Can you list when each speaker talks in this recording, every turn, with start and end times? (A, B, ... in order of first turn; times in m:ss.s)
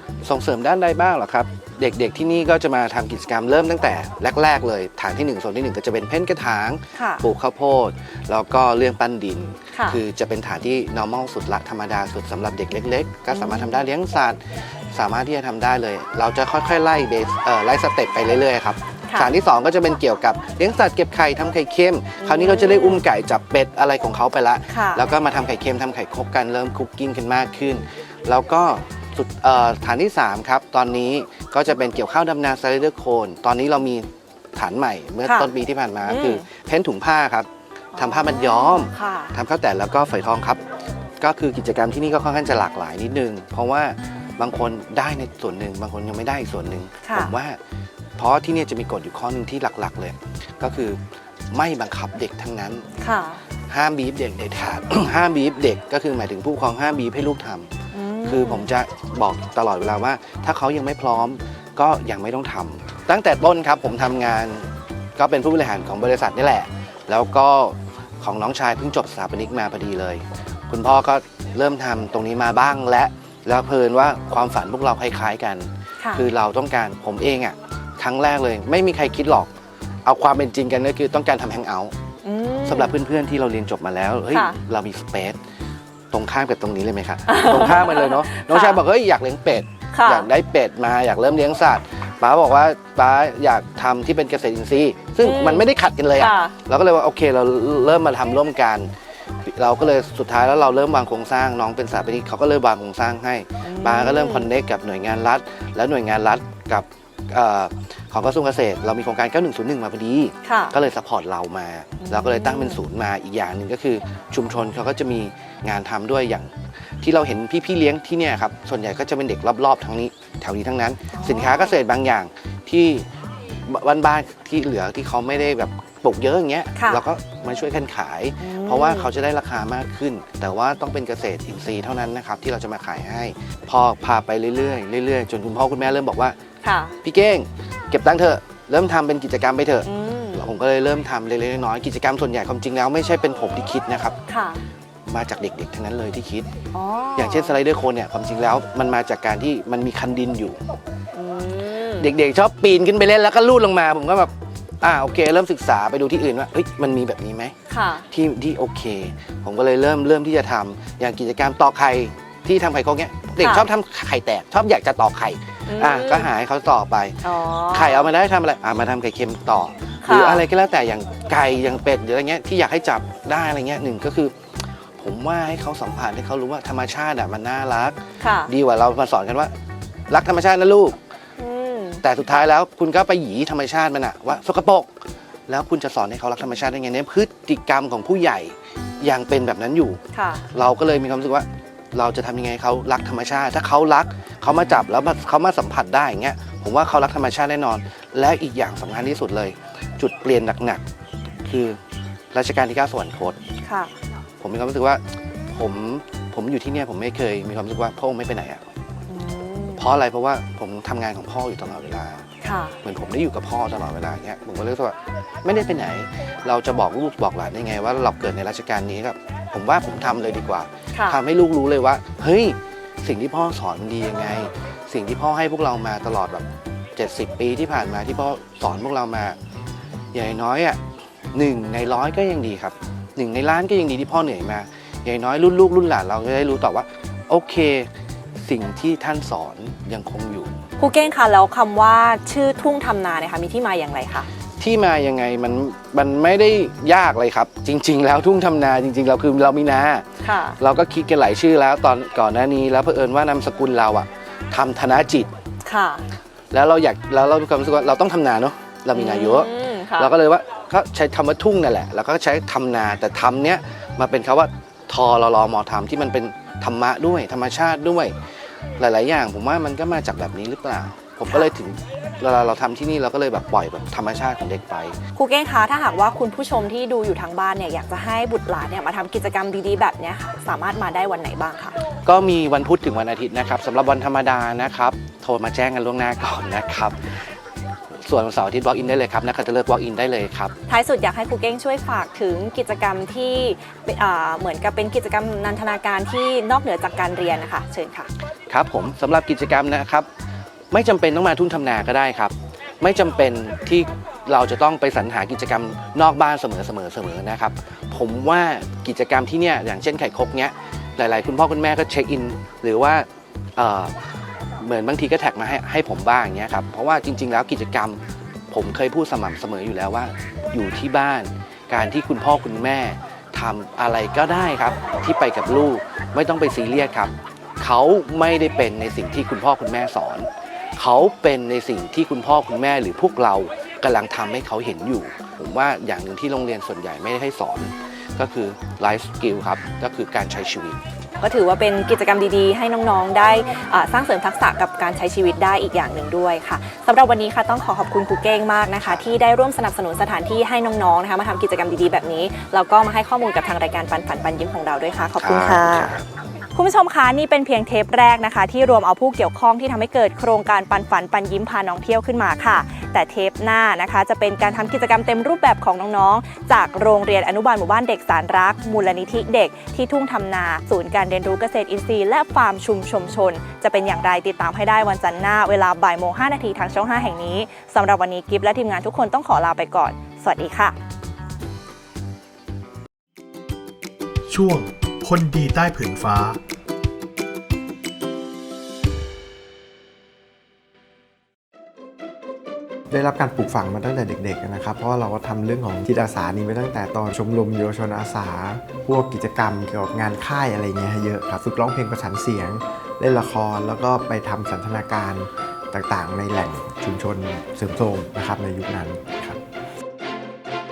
0:00.2-0:14.4 A
0:07.0-0:07.2 B
0:13.3-0:13.7 B
0:14.9-0:40.6 A
0:22.2-0:23.0 B
0:24.7-0:25.1 B
0:36.1-0:36.4 B
0:38.0-0:39.4 B
0:41.2-0:47.6 A
0:48.2-0:51.0 A
0:51.5-0:52.9 A
0:53.0-0:53.4 B
0:53.7-0:57.7 A
0:57.9-0:58.7 B
0:58.2-1:19.5 A
1:20.0-1:21.9 A
1:22.2-1:23.0 B
1:22.6-1:25.4 A
1:24.3-1:24.6 B
1:26.1-1:38.9 A
1:27.3-1:28.8 B
1:29.9-1:30.3 B
1:35.2-1:36.5 B
1:39.5-1:56.5 A
1:43.6-1:44.5 B
1:50.5-1:50.7 B
1:52.0-1:52.8 B
1:57.0-2:03.1 A
2:01.2-2:01.8 B
2:03.7-2:16.4 A
2:06.8-2:07.0 B
2:08.4-2:09.1 B
2:16.6-2:17.0 B
2:17.0-2:24.2 A
2:19.8-2:20.4 B
2:24.3-2:24.6 B
2:25.1-2:26.5 A
2:26.7-2:27.6 B
2:27.2-2:30.6 A
2:31.1-2:32.1 B
2:32.0-2:34.3 A
2:34.8-2:37.6 A
2:37.7-2:38.0 B
2:38.1-2:54.4 A
2:43.4-2:43.7 B
2:45.7-2:46.3 B
2:47.2-2:48.1 B
2:50.0-2:50.4 B
2:55.0-2:59.5 A
2:58.2-2:58.5 B
3:00.1-3:01.0 A
3:01.4-3:02.0 B
3:02.0-3:04.9 A
3:05.5-3:10.0 A
3:10.1-3:10.4 B
3:10.5-3:20.8 A
3:21.4-3:21.8 A
3:22.3-3:23.4 A
3:23.6-3:23.9 B
3:24.4-3:28.6 A
3:29.1-3:29.9 B
3:29.8-3:32.2 A
3:32.4-3:32.8 B
3:32.8-3:49.4 A
3:40.9-3:41.2 B
3:50.1-3:50.8 A
3:51.3-3:57.9 A
3:58.4-4:00.5 A
4:00.8-4:04.3 B
4:04.6-4:10.1 A
4:10.2-4:10.6 B
4:10.6-4:15.3 A
4:15.6-4:16.1 B
4:16.5-4:28.2 A
4:19.0-4:20.1 B
4:28.8-4:35.0 A
4:35.2-4:41.8 B
4:42.1-4:47.1 A
4:48.0-4:50.5 A
4:50.7-4:58.1 B
4:58.5-5:00.1 A
5:00.7-5:13.9 A
5:14.6-5:18.0 A
5:18.5-5:40.8 A
5:41.2-5:55.9 B
5:55.2-5:56.1 A
5:56.6-6:20.8 B
6:24.3-6:26.4 C
6:32.9-6:49.4 D